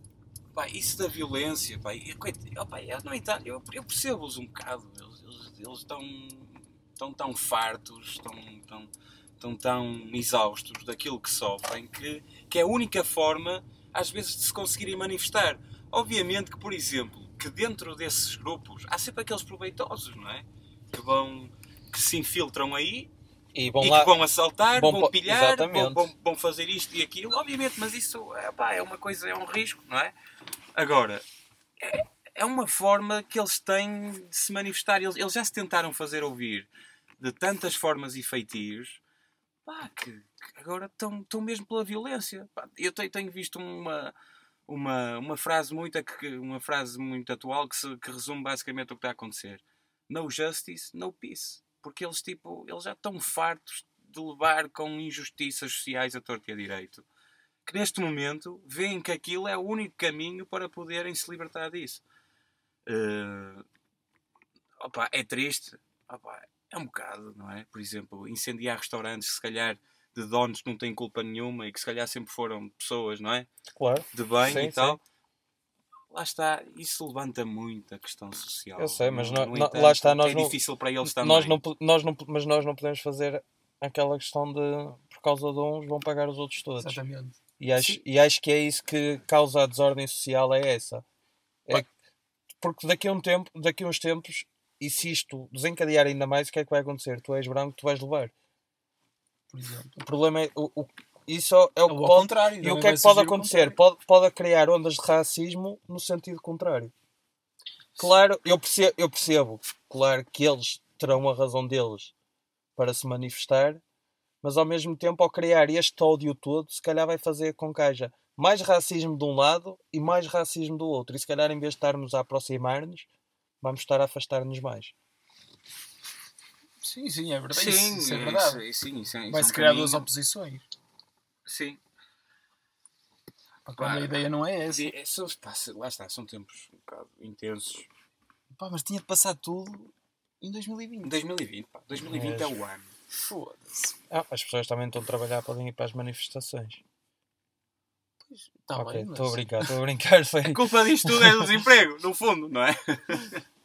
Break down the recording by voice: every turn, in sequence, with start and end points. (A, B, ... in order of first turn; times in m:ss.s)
0:00.5-0:23.1 A
0:23.5-0:24.1 B
0:23.8-0:30.1 A
0:24.7-0:26.1 B
0:30.8-0:31.2 A
0:31.8-0:39.0 A
0:39.6-0:44.1 A
0:44.7-0:57.0 A
0:57.6-1:02.0 A
1:02.8-1:03.6 A
1:04.8-1:13.5 A
1:13.7-1:15.0 B
1:14.1-1:15.0 A
1:16.1-1:21.6 A
1:18.8-1:27.0 B
1:26.8-1:27.4 C
1:27.6-1:31.0 B
1:27.7-1:28.0 A
1:32.6-1:38.3 B
1:39.5-1:39.9 C
1:40.0-1:46.9 B
1:41.9-1:43.8 C
1:48.0-1:52.1 B
1:52.8-1:53.8 B
1:54.4-2:03.1 B
2:03.6-2:04.9 B
2:06.8-2:08.6 C
2:07.5-2:10.1 A
2:09.3-2:10.6 C
2:11.4-2:11.8 A
2:13.6-2:14.9 C
2:13.8-2:17.9 A
2:18.6-2:21.2 C
2:21.0-2:22.9 A
2:22.0-2:22.5 B
2:23.1-2:23.9 C
2:24.1-2:26.8 B
2:28.2-2:29.6 C
2:28.8-2:31.5 B
2:30.4-2:33.4 A